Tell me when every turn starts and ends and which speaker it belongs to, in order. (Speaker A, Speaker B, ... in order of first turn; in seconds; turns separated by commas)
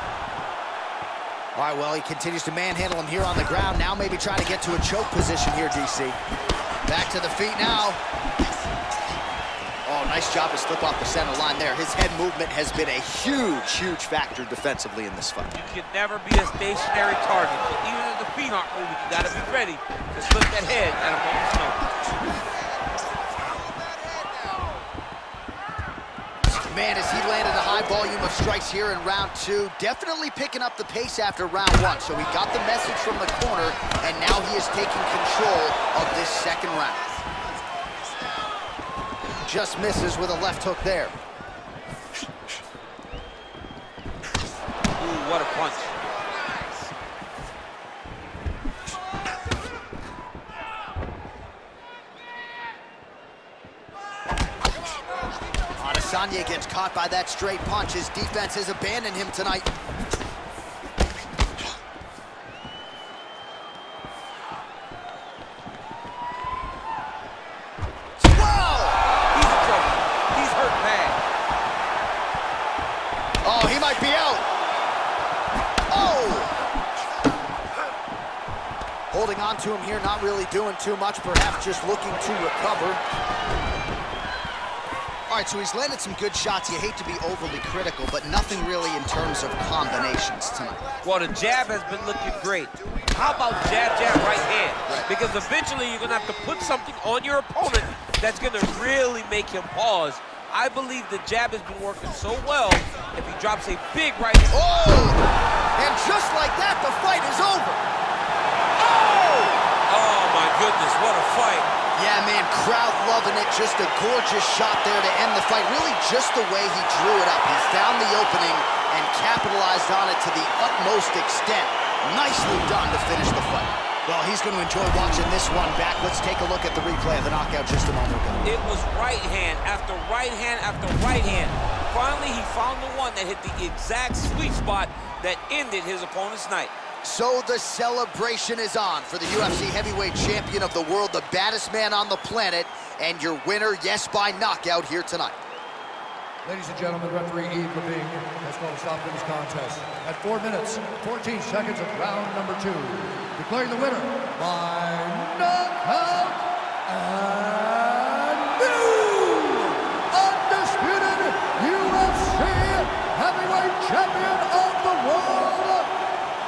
Speaker A: 1.5-6.2, Speaker A: 6.8-8.0, Speaker A: 9.8-15.5, Speaker B: 15.5-21.8, Speaker A: 26.7-37.0, Speaker A: 39.4-41.1, Speaker B: 45.0-46.0, Speaker A: 55.8-59.6, Speaker A: 68.2-69.0, Speaker B: 69.3-71.2, Speaker A: 73.4-74.5, Speaker A: 75.9-76.5, Speaker A: 79.1-83.0, Speaker A: 85.3-90.8, Speaker B: 91.0-104.5, Speaker A: 104.5-105.2, Speaker A: 105.8-107.8, Speaker B: 108.9-111.7, Speaker A: 109.1-109.5, Speaker A: 111.9-128.4, Speaker B: 128.4-136.7, Speaker A: 137.0-145.4, Speaker C: 146.4-165.9